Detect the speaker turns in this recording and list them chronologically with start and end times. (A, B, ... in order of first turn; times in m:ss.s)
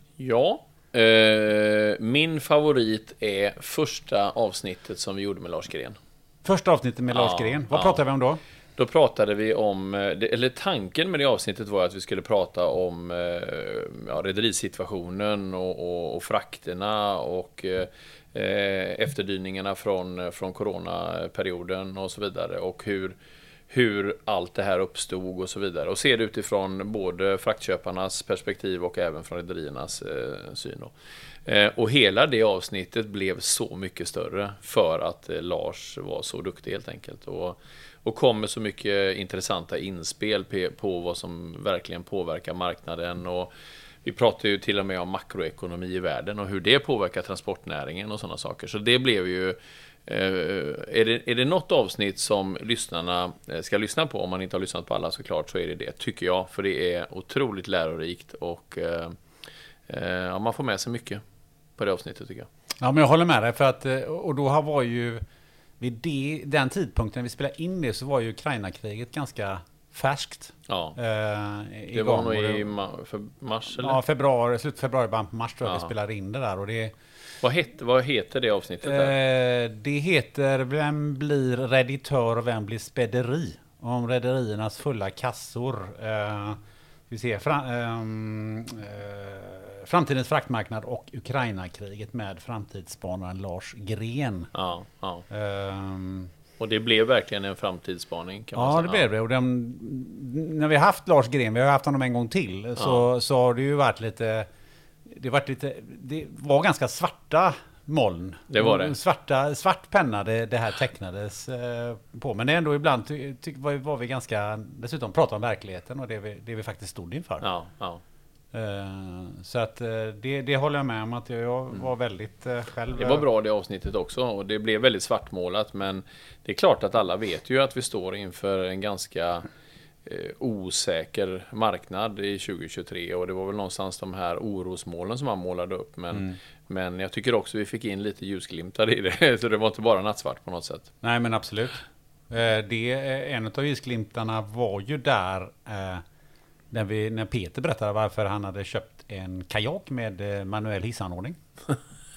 0:00.2-0:06.0 A
0:06.4-0:08.4 B
0:07.1-0:08.0 A
0:08.8-0:23.2 A
0:23.7-0:30.9 A
0:31.5-0:43.5 A
0:44.0-0:59.2 A
0:59.9-1:01.2 A
1:01.8-1:02.5 A
1:02.8-1:05.2 B
1:05.8-1:12.7 B
1:10.7-1:11.0 A
1:11.9-1:14.0 A
1:13.8-1:16.9 B
1:15.6-1:15.9 A
1:17.4-1:19.2 A
1:18.8-1:26.6 B
1:27.1-1:34.5 B
1:34.5-1:35.2 A
1:35.3-1:36.3 B
1:36.6-1:39.0 A
1:38.6-1:44.5 B
1:42.8-1:43.0 A
1:45.1-1:57.5 B
1:48.5-1:49.0 A
1:57.4-1:58.0 A
1:58.5-2:03.2 B
2:03.0-2:09.5 A
2:10.1-2:20.9 A
2:21.0-2:26.0 B
2:26.7-2:31.4 B